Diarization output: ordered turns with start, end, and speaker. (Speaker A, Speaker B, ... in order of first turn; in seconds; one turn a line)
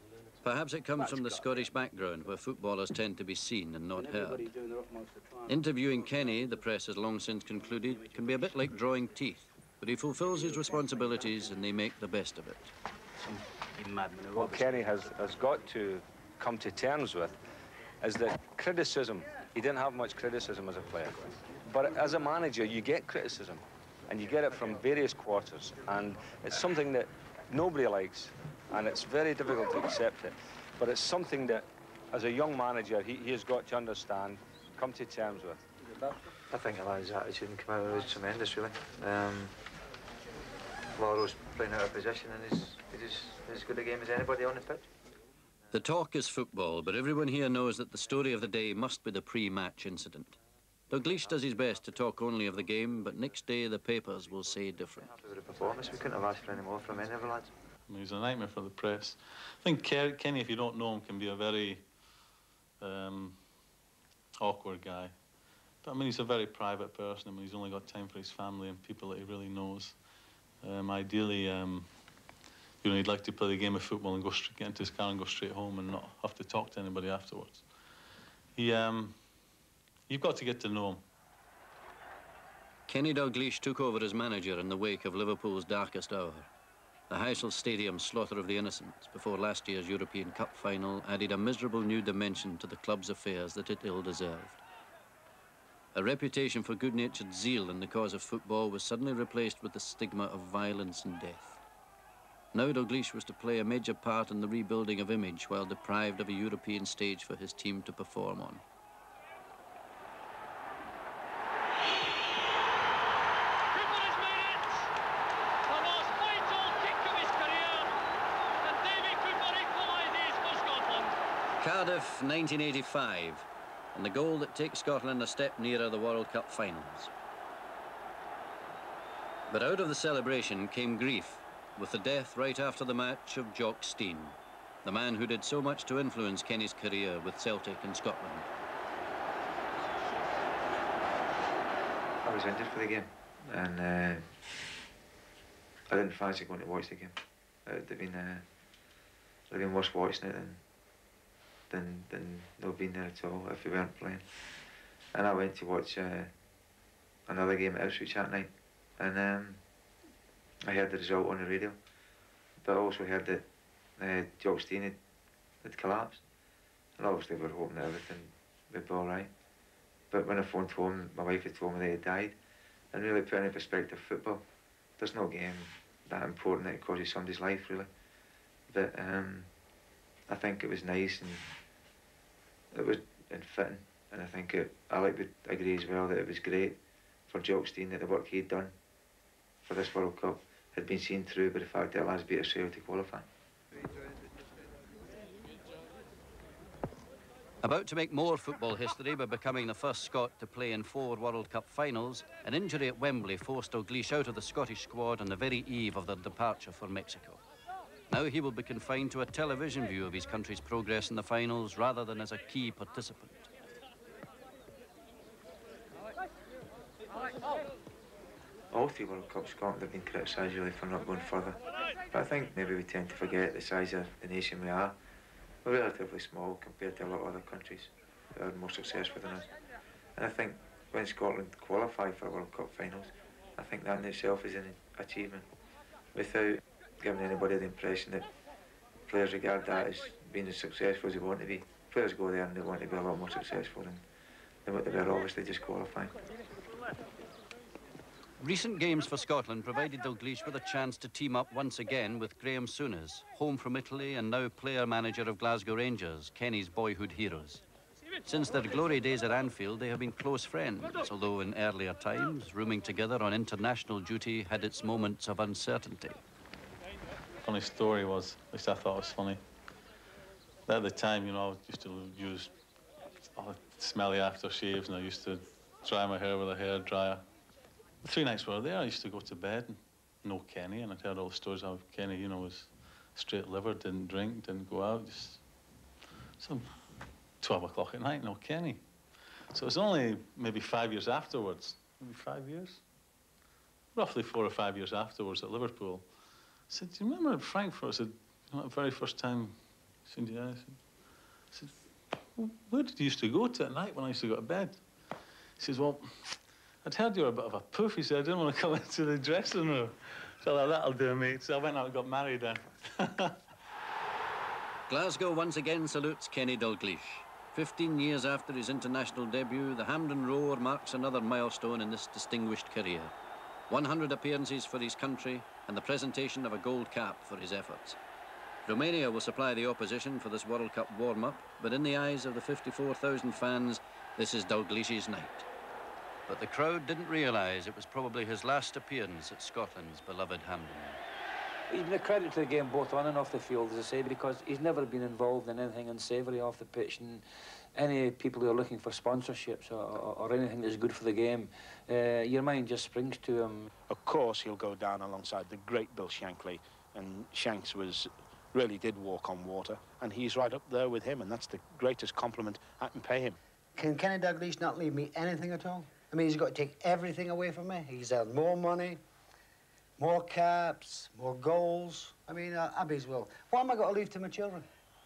Speaker A: 0.4-4.5
Speaker A: 5.5-12.7
Speaker B: 14.3-17.4
Speaker B: 18.0-35.6
Speaker C: 36.5-39.5
Speaker C: 41.0-44.9
Speaker A: 45.7-50.4
Speaker A: 50.9-55.1
Speaker C: 55.0-57.5
Speaker D: 57.9-61.8
Speaker D: 62.8-63.4
Speaker D: 64.4-65.1
Speaker D: 65.8-70.0
Speaker D: 70.6-71.9
Speaker D: 72.8-77.6
Speaker D: 78.6-79.1
Speaker D: 80.1-81.0
Speaker A: 82.9-86.5
Speaker A: 87.1-94.6
Speaker A: 95.9-101.6
Speaker A: 102.5-108.6
Speaker A: 121.6-127.1
Speaker A: 129.5-138.5
Speaker C: 142.2-144.3
Speaker C: 145.9-148.4
Speaker C: 149.5-150.6
Speaker C: 151.7-154.3
Speaker C: 155.1-156.3
Speaker C: 157.3-159.6
Speaker C: 160.7-161.8
Speaker C: 162.6-163.4
Speaker C: 164.0-165.0
Speaker C: 165.6-166.2
Speaker C: 167.0-169.3
Speaker C: 170.1-172.4
Speaker C: 172.9-174.4
Speaker C: 175.0-177.9
Speaker C: 178.7-179.5
Speaker C: 180.3-181.5
Speaker C: 182.7-186.8
Speaker C: 187.3-188.7
Speaker C: 189.6-193.3
Speaker A: 197.6-207.4
Speaker A: 208.1-213.5
Speaker C: 218.7-224.9
Speaker C: 225.6-229.5
Speaker C: 230.2-235.5
Speaker C: 236.2-238.3
Speaker C: 239.1-244.0
Speaker C: 244.7-246.2
Speaker A: 248.4-257.6
Speaker A: 258.2-266.2
Speaker D: 267.4-269.4
Speaker D: 270.7-272.5
Speaker D: 273.4-277.2
Speaker D: 278.0-285.4
Speaker D: 286.4-286.7
Speaker D: 287.4-288.8
Speaker D: 289.5-292.8
Speaker D: 293.9-296.1
Speaker D: 296.7-299.6
Speaker D: 300.1-300.8
Speaker D: 302.4-304.8
Speaker D: 305.6-306.1
Speaker D: 306.8-313.4
Speaker A: 314.9-323.1
Speaker A: 323.7-328.0
Speaker A: 328.6-335.5
Speaker A: 336.3-341.0
Speaker E: 341.7-347.2
Speaker E: 347.8-353.7
Speaker F: 353.9-363.4
Speaker G: 363.8-369.0
Speaker G: 370.0-374.6